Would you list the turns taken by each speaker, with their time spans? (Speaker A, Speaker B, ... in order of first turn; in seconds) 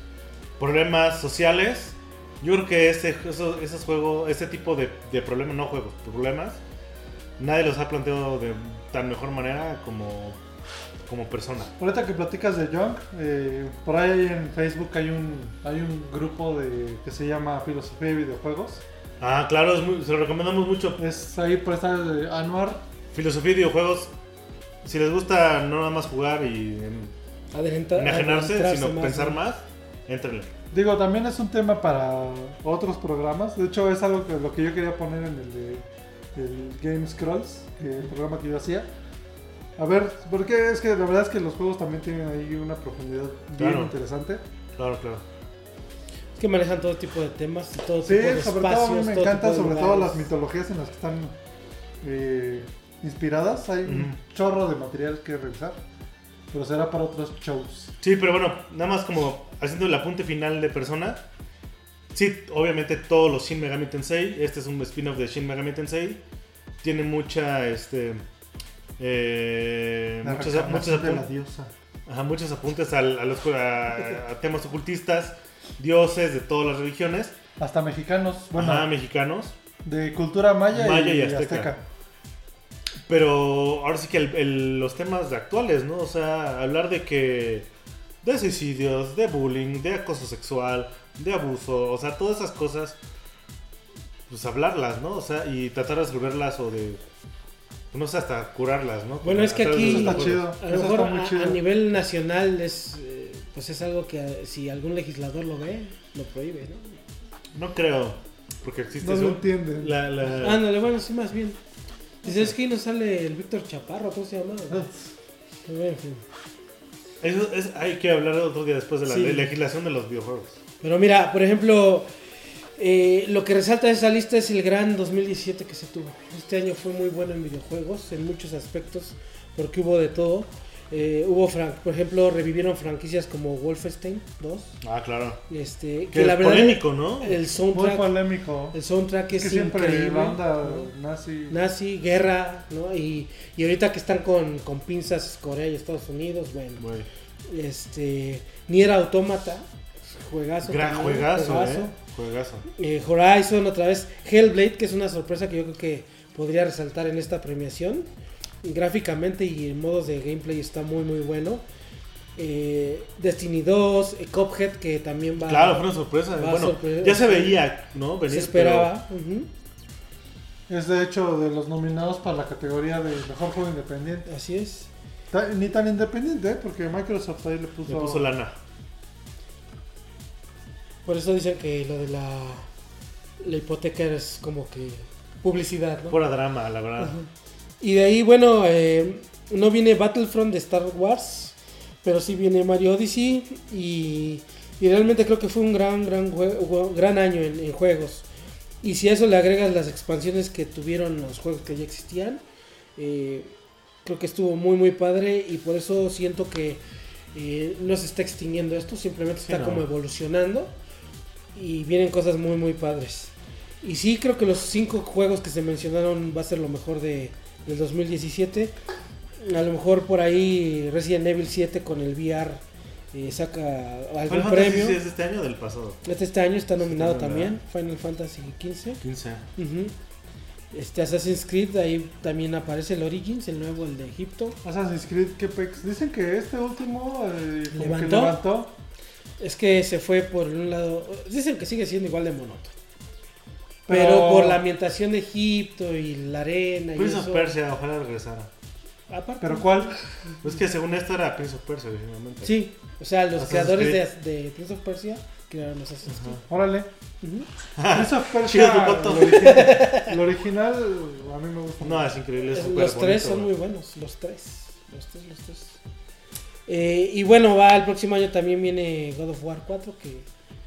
Speaker A: 0.6-6.6, 7.4-10.4, 11.1-11.8, 19.2-21.0, 23.1-24.1, 24.8-27.1, 28.0-30.5, 43.6-43.9, 44.8-45.2, 53.9-54.2, 58.0-61.2, 62.1-66.2, 66.8-68.2, 69.0-71.3, 72.1-77.4, 78.5-79.5, 80.7-81.7, 83.1-87.7, 88.2-93.0, 94.3-97.0, 97.9-100.5, 107.5-110.6, 117.2-120.6, 134.8-135.4, 136.1-137.4, 146.8-147.1, 150.7-152.7, 165.5-168.9, 177.9-178.6, 186.1-187.2, 209.5-209.8, 224.3-226.0, 226.8-227.6, 229.0-229.5, 247.0-248.5, 250.4-252.6, 253.4-254.0, 256.1-256.4, 257.8-259.8, 261.8-263.5
Speaker B: 11.8-18.8, 21.0-22.8, 30.7-35.8, 36.4-38.9, 39.8-44.4, 48.0-51.4, 52.0-55.8, 56.5-57.9, 70.2-71.7, 77.6-78.9, 79.8-81.8, 99.8-101.6, 109.0-110.0, 114.7-115.0, 137.7-138.8, 139.3-141.6, 170.7-174.3, 175.3-178.3, 234.6-238.7, 243.9-244.6, 249.4-250.0, 256.5-256.9, 257.9-262.1
Speaker C: 27.5-29.4, 46.4-50.3, 99.2-107.0, 110.3-111.6, 112.2-114.9, 115.7-116.2, 119.1-119.5, 120.8-122.1, 122.8-134.7, 135.5-138.2, 138.7-140.9, 141.5-146.8, 147.5-151.9, 152.7-158.1, 158.6-161.6, 162.4-165.8, 166.4-167.6, 168.3-169.5, 174.3-174.9, 181.1-182.7, 183.4-186.2, 187.0-187.3, 187.8-198.3, 198.8-202.4, 203.0-206.8, 207.3-210.7, 211.5-218.8, 219.4-225.0, 226.1-229.0, 229.6-229.9, 230.7-234.6, 237.7-238.4, 239.4-242.7, 243.9-247.5, 249.1-250.0, 252.4-256.4, 257.2-257.5, 259.4-260.1, 262.5-265.8, 266.7-270.3